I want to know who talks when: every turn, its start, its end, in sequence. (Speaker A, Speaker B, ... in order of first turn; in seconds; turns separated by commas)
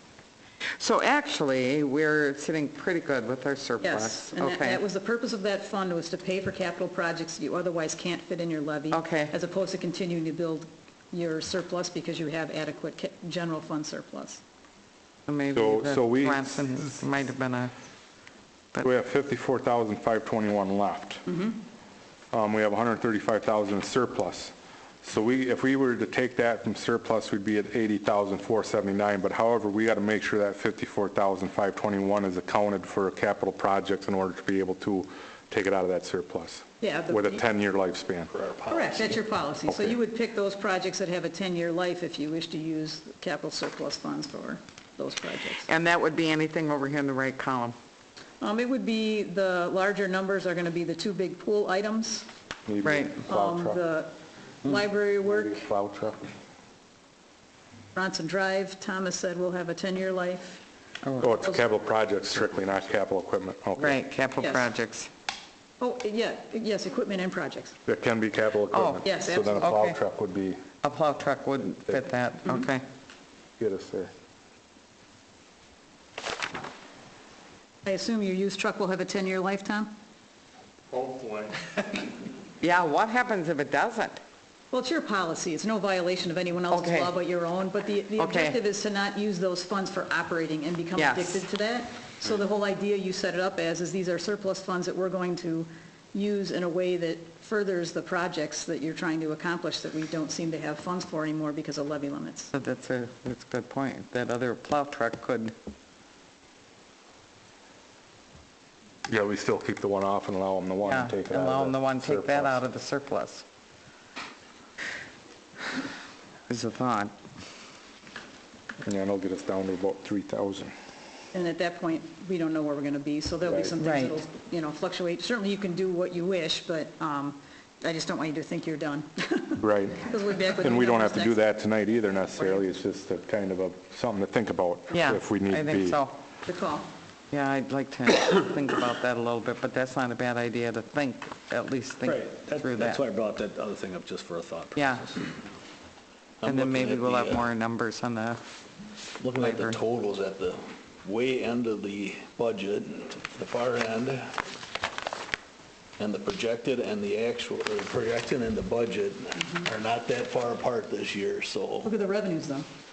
Speaker A: 0.8-4.8, Speaker B: 3.8-14.4, Speaker A: 8.9-9.3, Speaker A: 15.3-17.7, Speaker C: 15.5-17.0, Speaker C: 18.8-21.2, Speaker B: 21.3-21.6, Speaker C: 22.3-38.3, Speaker B: 36.8-37.5, Speaker D: 38.3-39.2, Speaker B: 38.7-45.7, Speaker C: 39.7-40.0, Speaker A: 45.7-47.8, Speaker B: 48.4-52.3, Speaker C: 52.7-53.8, Speaker A: 52.8-53.2, Speaker B: 53.2-55.7, Speaker C: 55.2-56.3, Speaker B: 57.9-60.6, Speaker A: 61.0-61.3, Speaker C: 61.2-64.0, Speaker A: 63.8-65.1, Speaker B: 64.4-64.7, Speaker B: 65.8-67.8, Speaker C: 67.9-70.6, Speaker A: 68.7-69.0, Speaker B: 69.0-69.7, Speaker A: 69.6-70.0, Speaker A: 70.8-72.8, Speaker C: 73.6-74.1, Speaker B: 77.8-79.9, Speaker C: 80.9-82.1, Speaker A: 82.6-84.2, Speaker B: 84.7-102.5, Speaker A: 86.7-87.1, Speaker A: 88.2-88.6, Speaker A: 91.0-91.4, Speaker A: 102.5-105.5, Speaker C: 109.1-112.6, Speaker A: 110.8-113.4, Speaker A: 116.5-117.1, Speaker C: 118.8-120.7, Speaker B: 121.3-131.4, Speaker C: 123.5-123.8, Speaker A: 123.8-124.2, Speaker C: 129.6-136.0, Speaker A: 134.9-136.2, Speaker B: 136.5-136.9, Speaker A: 137.3-143.0, Speaker D: 142.0-145.4, Speaker A: 144.8-145.1, Speaker D: 146.4-147.5, Speaker A: 146.4-148.4, Speaker D: 149.2-154.4, Speaker A: 149.3-149.8, Speaker D: 156.0-161.9, Speaker B: 159.4-159.7, Speaker B: 161.8-162.7